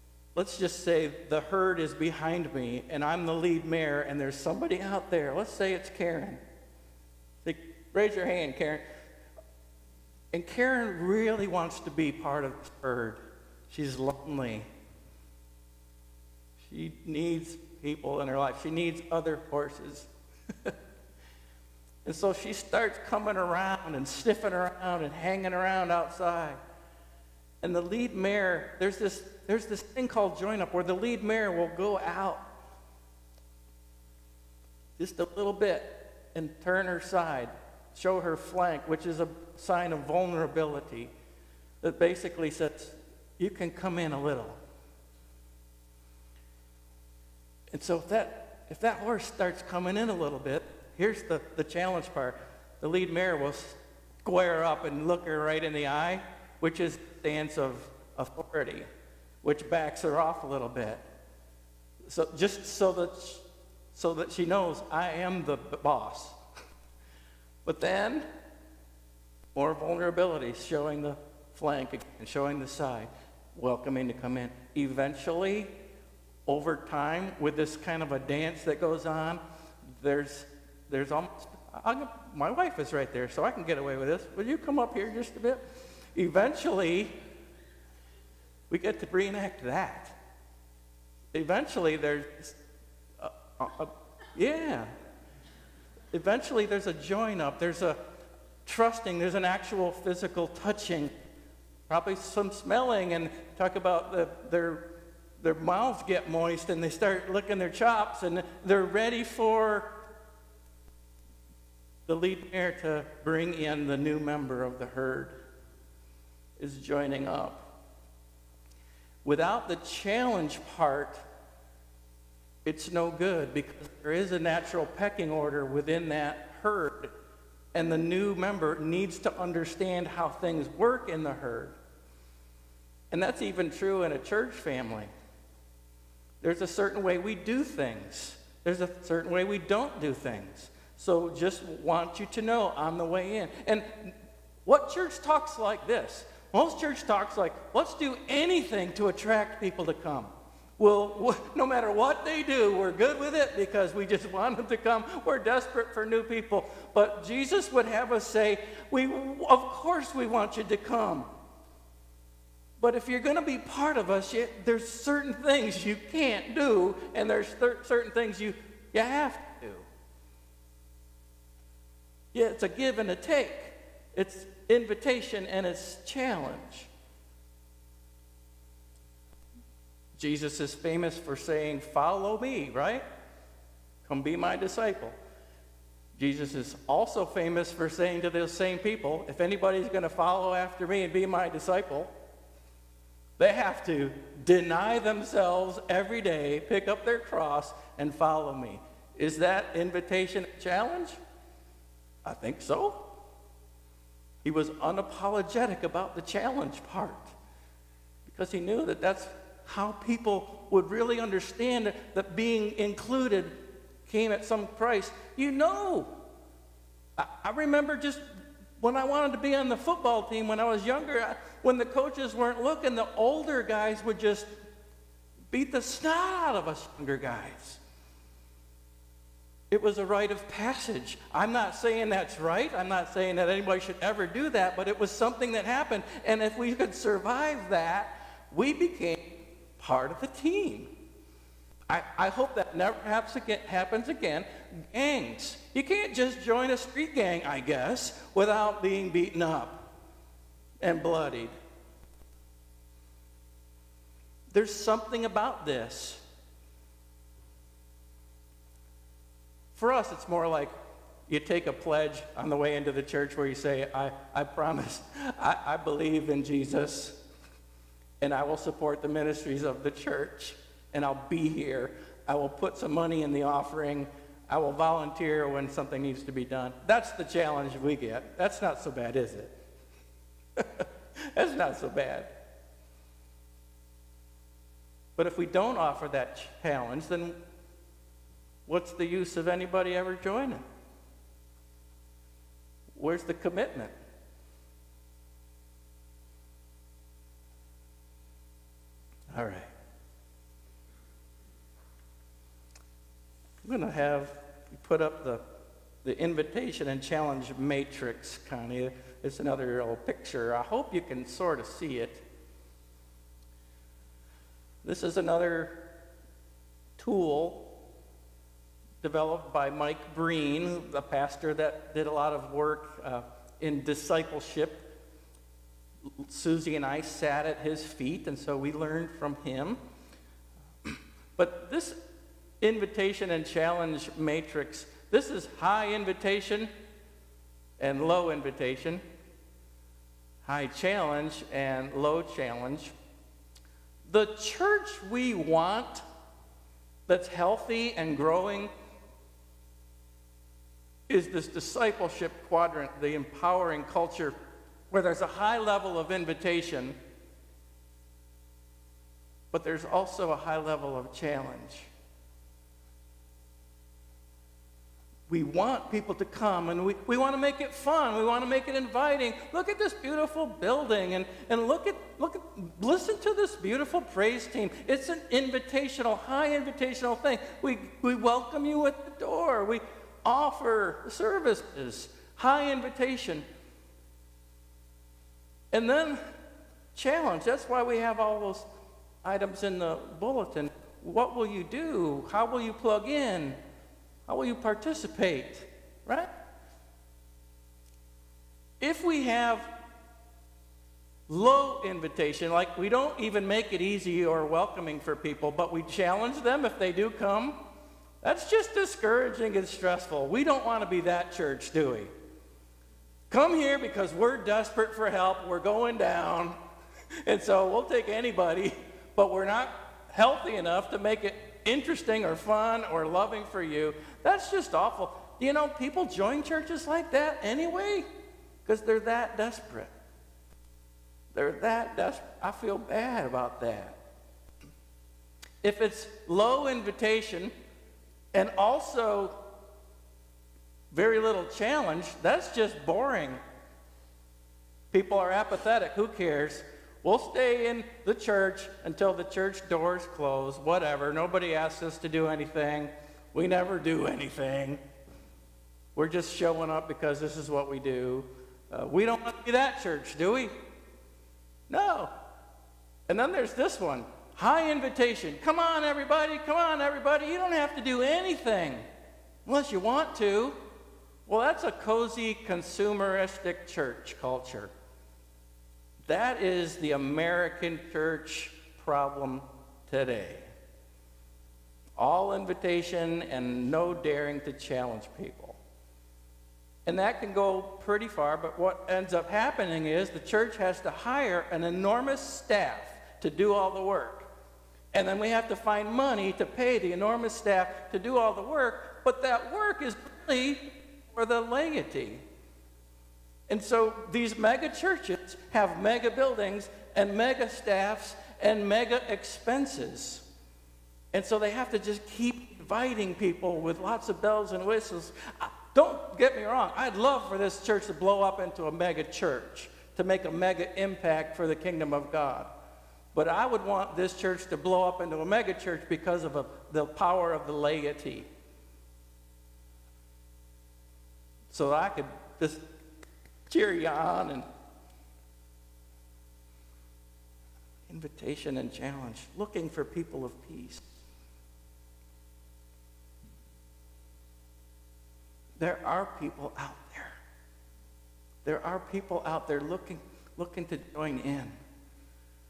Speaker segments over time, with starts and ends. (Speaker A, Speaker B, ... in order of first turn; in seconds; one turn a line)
Speaker A: 0.3-6.4
Speaker A: 7.5-8.8
Speaker A: 10.3-14.7
Speaker A: 16.6-20.1
Speaker A: 22.1-26.6
Speaker A: 27.6-32.5
Speaker A: 35.0-41.1
Speaker A: 41.8-44.6
Speaker A: 47.7-58.9
Speaker A: 59.4-61.0
Speaker A: 62.1-66.4
Speaker A: 67.7-68.2
Speaker A: 69.5-75.7
Speaker A: 76.5-79.4
Speaker A: 80.0-85.6
Speaker A: 86.2-87.2
Speaker A: 88.7-90.2
Speaker A: 91.3-92.6
Speaker A: 93.2-94.9
Speaker A: 96.1-98.0
Speaker A: 98.7-101.1
Speaker A: 101.9-104.9
Speaker A: 105.4-110.0
Speaker A: 112.1-115.4
Speaker A: 116.6-117.7
Speaker A: 119.2-121.2
Speaker A: 122.7-127.1
Speaker A: 127.7-131.8
Speaker A: 133.1-135.1
Speaker A: 136.4-161.3
Speaker A: 162.8-169.9
Speaker A: 172.3-176.9
Speaker A: 180.2-183.0
Speaker A: 184.1-185.2
Speaker A: 186.2-192.1
Speaker A: 193.4-201.2
Speaker A: 202.2-203.0
Speaker A: 204.4-207.3
Speaker A: 208.3-216.1
Speaker A: 217.2-218.2
Speaker A: 218.8-224.5
Speaker A: 225.5-227.8
Speaker A: 229.7-240.9
Speaker A: 241.9-249.9
Speaker A: 250.8-251.5
Speaker A: 254.5-256.2
Speaker A: 259.8-260.7
Speaker A: 261.3-267.2
Speaker A: 268.2-279.5
Speaker A: 280.6-282.3
Speaker A: 285.2-287.4
Speaker A: 288.7-290.6
Speaker A: 292.9-293.9
Speaker A: 299.3-299.7
Speaker A: 303.6-305.4
Speaker A: 306.0-312.2
Speaker A: 314.8-315.8
Speaker A: 317.0-317.7
Speaker A: 319.0-324.9
Speaker A: 326.2-329.8
Speaker A: 330.9-332.0
Speaker A: 332.6-336.7
Speaker A: 337.8-339.0
Speaker A: 340.5-342.9
Speaker A: 344.1-346.0
Speaker A: 347.1-348.7
Speaker A: 351.1-354.3
Speaker A: 354.9-357.0
Speaker A: 359.5-361.9
Speaker A: 365.3-383.4
Speaker A: 385.7-386.2
Speaker A: 386.9-388.7
Speaker A: 389.2-393.6
Speaker A: 394.3-396.3
Speaker A: 398.8-399.7
Speaker A: 401.3-407.6
Speaker A: 408.2-412.1
Speaker A: 413.3-416.6
Speaker A: 417.2-428.1
Speaker A: 428.6-429.9
Speaker A: 431.3-434.0
Speaker A: 435.6-437.5
Speaker A: 438.3-439.4
Speaker A: 440.9-443.4
Speaker A: 444.9-454.8
Speaker A: 456.0-460.5
Speaker A: 461.7-462.1
Speaker A: 463.1-468.9
Speaker A: 469.5-470.6
Speaker A: 471.3-474.7
Speaker A: 476.1-480.5
Speaker A: 482.0-485.6
Speaker A: 486.9-494.3
Speaker A: 494.9-502.2
Speaker A: 503.5-510.2
Speaker A: 511.1-522.5
Speaker A: 523.1-528.3
Speaker A: 531.5-532.6
Speaker A: 533.5-534.5
Speaker A: 537.9-540.8
Speaker A: 545.6-547.2
Speaker A: 548.5-551.5